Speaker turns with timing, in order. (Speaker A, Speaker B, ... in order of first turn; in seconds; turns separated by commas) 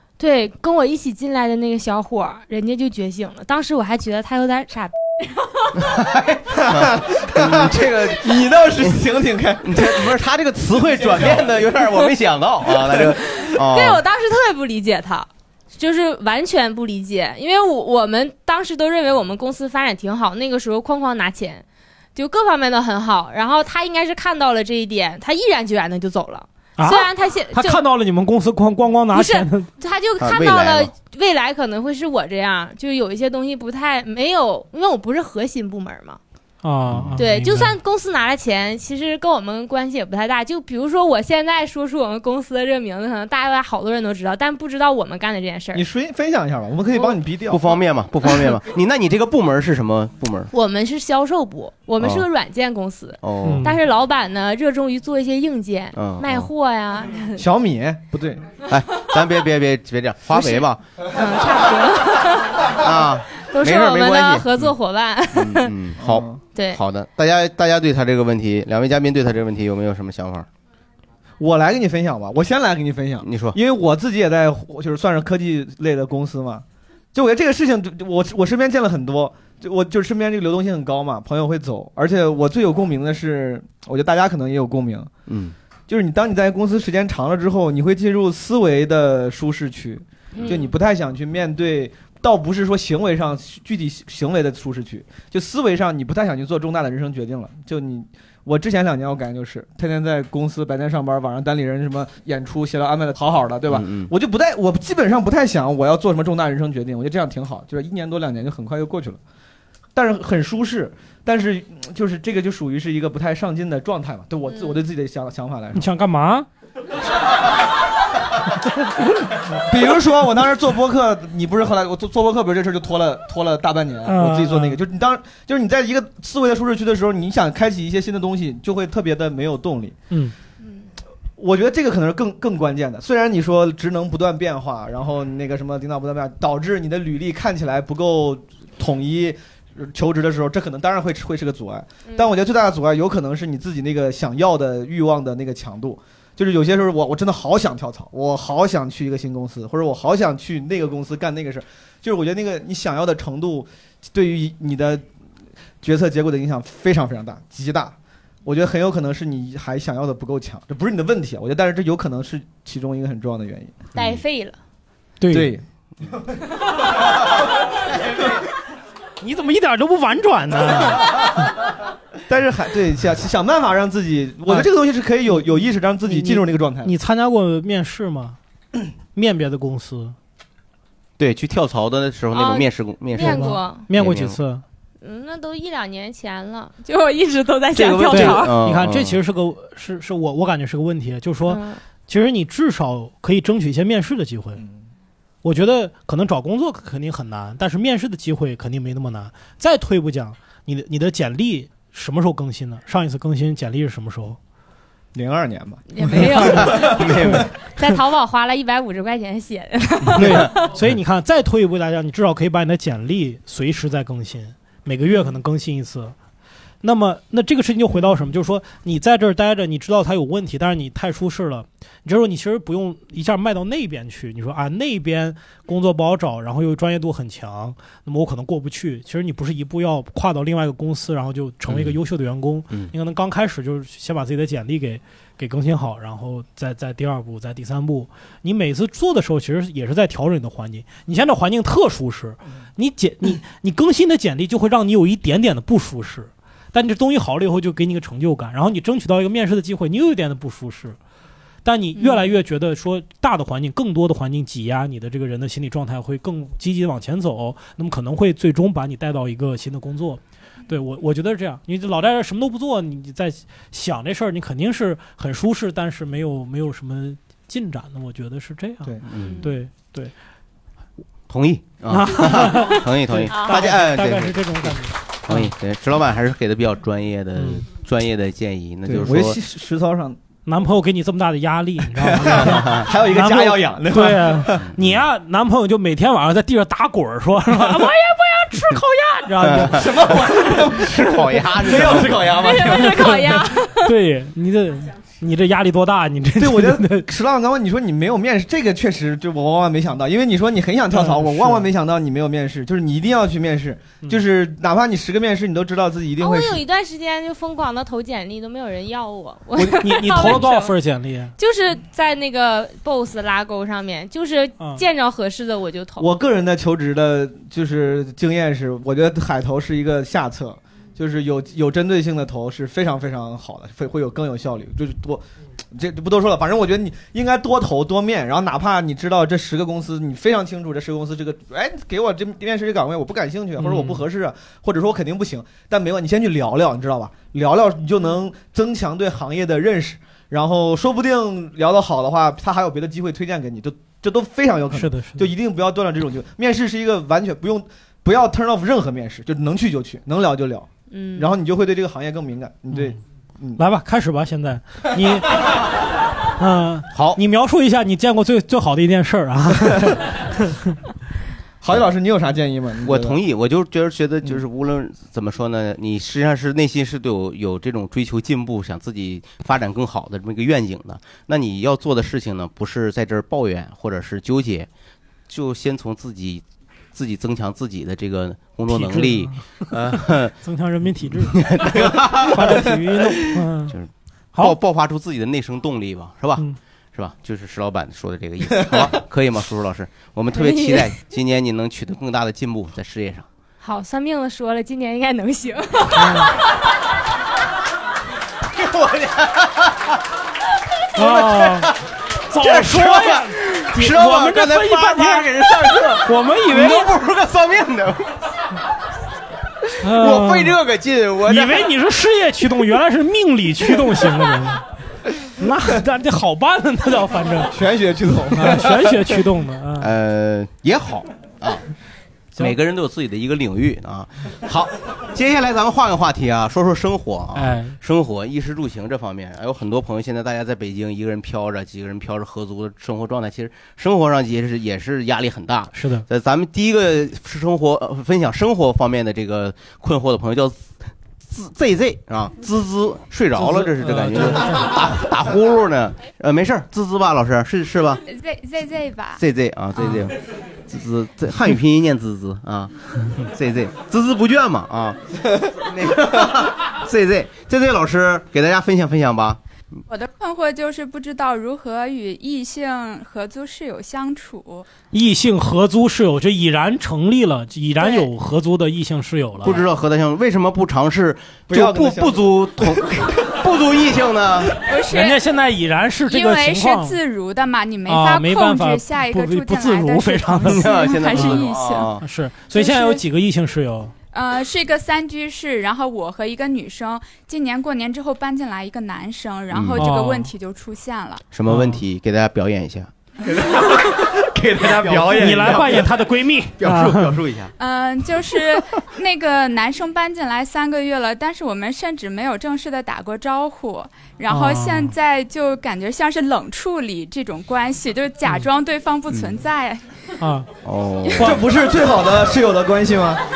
Speaker A: 0.2-5.8, Speaker B: 5.8-8.4, Speaker C: 6.5-9.9, Speaker B: 9.6-14.0, Speaker C: 11.0-11.5, Speaker A: 13.1-21.6, Speaker A: 22.1-27.8, Speaker D: 26.8-29.7, Speaker A: 29.1-36.2, Speaker B: 30.2-30.9, Speaker D: 36.6-37.8, Speaker B: 36.9-37.2, Speaker A: 37.2-45.9, Speaker C: 45.7-47.6, Speaker A: 46.9-47.2, Speaker B: 47.5-50.5, Speaker A: 48.3-48.6, Speaker A: 50.5-57.5, Speaker B: 52.0-52.2, Speaker B: 53.2-53.7, Speaker D: 53.4-53.8, Speaker B: 56.0-56.5, Speaker C: 57.4-58.5, Speaker B: 58.7-60.9, Speaker A: 60.3-62.7, Speaker B: 62.8-64.5, Speaker A: 63.4-65.8, Speaker B: 65.3-70.5, Speaker C: 66.0-66.4, Speaker A: 66.5-66.8, Speaker C: 71.4-85.1, Speaker B: 73.2-73.6, Speaker B: 85.3-85.5, Speaker C: 85.9-109.2, Speaker A: 90.3-90.8, Speaker B: 103.7-104.1, Speaker C: 110.0-115.9, Speaker A: 114.5-114.8, Speaker D: 115.8-116.5, Speaker C: 119.6-130.0, Speaker D: 124.1-124.8, Speaker A: 130.6-130.9, Speaker C: 131.4-155.0, Speaker A: 142.1-142.3, Speaker C: 155.8-163.8, Speaker A: 163.9-164.6, Speaker B: 164.0-164.2, Speaker D: 165.2-165.5, Speaker C: 165.3-165.6, Speaker D: 169.2-171.1, Speaker C: 172.3-176.9, Speaker D: 176.1-178.4, Speaker D: 179.1-180.2, Speaker B: 181.2-184.4, Speaker A: 182.3-183.9, Speaker D: 183.2-184.6, Speaker A: 185.0-188.6, Speaker B: 187.7-189.2, Speaker D: 188.1-194.6, Speaker A: 191.4-191.8, Speaker D: 195.4-204.4, Speaker C: 205.1-205.8, Speaker A: 205.9-207.2, Speaker B: 206.5-207.5, Speaker A: 207.8-210.8, Speaker D: 210.2-216.2, Speaker D: 216.8-251.0, Speaker B: 231.7-232.0, Speaker D: 251.7-270.1, Speaker A: 252.0-252.2, Speaker B: 269.1-269.4, Speaker A: 269.1-269.5, Speaker B: 271.3-274.7, Speaker D: 271.9-272.8, Speaker A: 273.3-273.7, Speaker D: 273.4-275.5, Speaker B: 275.2-279.4, Speaker D: 277.4-277.6, Speaker C: 278.9-280.2, Speaker D: 280.5-289.9, Speaker C: 282.0-284.7, Speaker B: 289.4-289.8, Speaker C: 289.7-293.4, Speaker B: 290.7-292.4, Speaker A: 292.3-293.9, Speaker D: 292.9-293.3, Speaker D: 293.8-297.1, Speaker C: 296.4-306.6, Speaker D: 300.9-301.7, Speaker A: 306.2-310.8, Speaker D: 309.6-311.3, Speaker A: 311.4-316.1, Speaker C: 316.0-325.2, Speaker C: 325.7-353.6, Speaker D: 333.6-334.0, Speaker D: 344.7-345.3, Speaker A: 350.9-351.3, Speaker D: 353.6-355.5, Speaker D: 356.4-360.5, Speaker B: 356.9-357.2, Speaker C: 361.6-363.2, Speaker B: 362.8-374.7, Speaker B: 375.3-380.3, Speaker D: 378.7-381.5, Speaker B: 381.1-382.7, Speaker D: 382.2-383.8, Speaker B: 383.2-393.3, Speaker A: 390.3-390.9, Speaker A: 393.6-396.4, Speaker D: 396.0-396.3, Speaker B: 398.5-400.0, Speaker D: 400.9-401.7, Speaker B: 400.9-401.8, Speaker D: 402.3-405.3, Speaker B: 402.3-408.2, Speaker D: 406.0-406.9, Speaker D: 409.8-410.6, Speaker B: 409.8-411.7, Speaker D: 411.3-414.6, Speaker D: 415.4-417.6, Speaker C: 417.5-418.8, Speaker D: 418.3-419.9, Speaker B: 419.8-421.6, Speaker B: 422.4-440.7, Speaker D: 427.4-427.8, Speaker D: 435.7-436.1, Speaker B: 441.2-448.0, Speaker D: 443.4-444.7, Speaker E: 448.1-449.2, Speaker B: 449.2-459.4, Speaker E: 459.9-464.7, Speaker D: 464.9-469.6, Speaker E: 467.8-468.1, Speaker B: 469.4-474.5, Speaker C: 471.5-472.8, Speaker E: 474.6-475.2, Speaker D: 474.9-477.0, Speaker E: 476.1-481.9, Speaker D: 477.9-481.4, Speaker B: 480.5-482.0, Speaker D: 482.0-483.9, Speaker E: 482.5-483.0, Speaker E: 484.1-491.2, Speaker B: 489.5-489.9, Speaker D: 489.8-490.3, Speaker B: 491.3-492.9, Speaker D: 491.5-491.8, Speaker C: 493.3-495.8, Speaker B: 494.6-495.8, Speaker D: 495.1-497.1, Speaker B: 496.6-497.5, Speaker E: 497.6-509.9, Speaker D: 504.3-504.9, Speaker B: 509.1-509.4, Speaker D: 510.2-510.5, Speaker B: 510.6-511.4, Speaker C: 511.2-513.2